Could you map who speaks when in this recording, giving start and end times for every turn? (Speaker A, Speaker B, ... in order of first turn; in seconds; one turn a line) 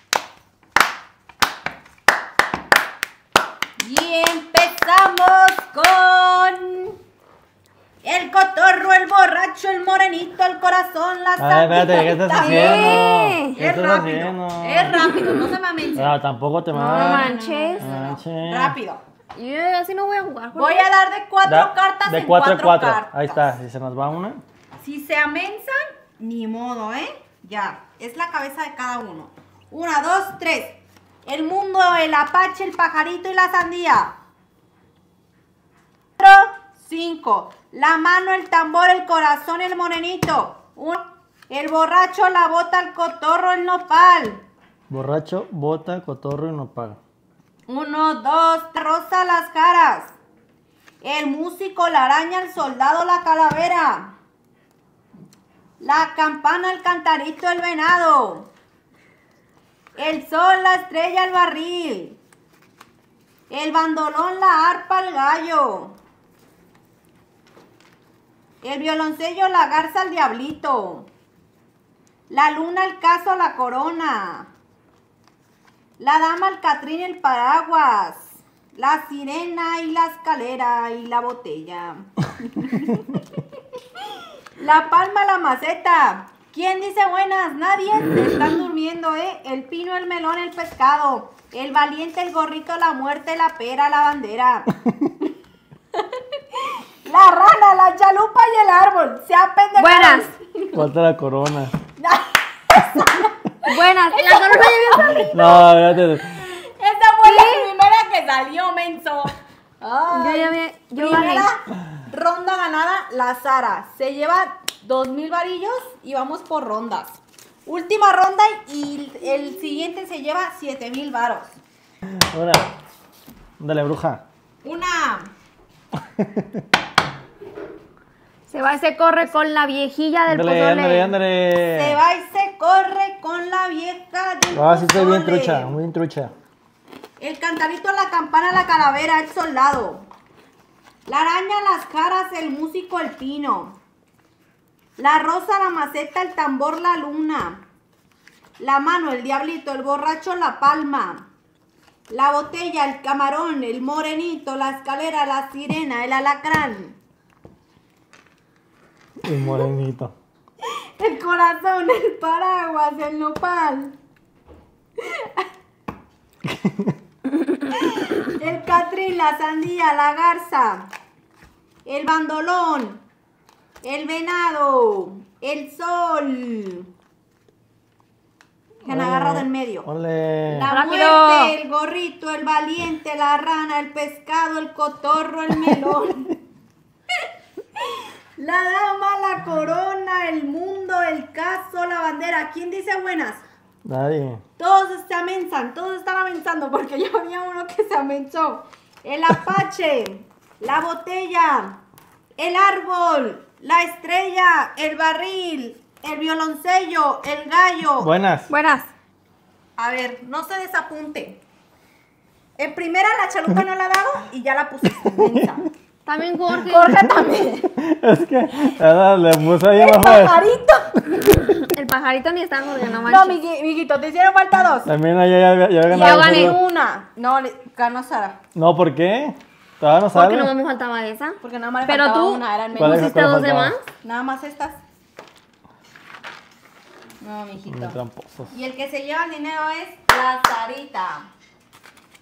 Speaker A: 3.8-7.0
Speaker A: 8.0-16.2
Speaker B: 11.4-15.2
Speaker C: 12.4-13.6
Speaker B: 16.0-18.8
Speaker C: 16.7-17.9
Speaker A: 16.8-19.0
Speaker C: 19.4-20.9
Speaker A: 20.6-23.5
Speaker B: 21.5-24.4
Speaker A: 24.8-34.1
Speaker A: 36.2-44.4
Speaker B: 44.9-47.0
Speaker A: 47.7-50.2
Speaker A: 51.0-54.1
Speaker A: 55.8-58.5
Speaker A: 60.0-62.2
Speaker A: 63.5-66.0
Speaker A: 68.6-71.1
Speaker A: 72.3-74.5
Speaker A: 76.0-83.4
Speaker A: 84.6-94.7
Speaker A: 96.0-100.8
Speaker C: 99.8-100.3
Speaker B: 100.7-101.7
Speaker A: 102.0-105.7
Speaker C: 103.6-105.3
Speaker B: 105.3-106.4
Speaker A: 106.4-121.5
Speaker C: 107.2-107.7
Speaker C: 110.1-111.5
Speaker B: 122.1-122.7
Speaker B: 123.6-124.2
Speaker A: 124.6-125.3
Speaker C: 128.5-131.2
Speaker B: 130.3-132.0
Speaker A: 131.7-135.8
Speaker B: 134.5-136.3
Speaker A: 137.2-140.1
Speaker A: 141.1-143.8
Speaker A: 145.0-147.7
Speaker A: 148.6-151.3
Speaker A: 152.1-157.0
Speaker B: 159.2-160.1
Speaker A: 160.6-164.0
Speaker A: 165.0-165.4
Speaker B: 166.5-166.9
Speaker A: 167.7-170.9
Speaker A: 171.8-173.0
Speaker A: 173.8-176.9
Speaker A: 178.8-179.9
Speaker B: 178.9-180.7
Speaker A: 180.5-186.4
Speaker C: 180.7-181.6
Speaker A: 188.4-193.4
Speaker B: 193.8-194.4
Speaker A: 194.6-201.8
Speaker A: 202.4-208.1
Speaker B: 208.0-208.5
Speaker C: 208.5-208.9
Speaker A: 209.8-211.4
Speaker A: 212.6-215.7
Speaker C: 216.1-217.1
Speaker A: 216.5-217.7
Speaker B: 217.7-220.4
Speaker A: 219.7-221.4
Speaker C: 221.3-223.4
Speaker A: 223.1-224.9
Speaker B: 224.9-226.6
Speaker A: 225.9-228.4
Speaker C: 226.0-226.6
Speaker B: 228.6-230.5
Speaker C: 230.1-233.8
Speaker A: 231.4-233.3
Speaker B: 232.8-233.8
Speaker A: 234.0-234.8
Speaker A: 237.2-238.0
Speaker B: 237.7-238.5
Speaker A: 238.5-241.3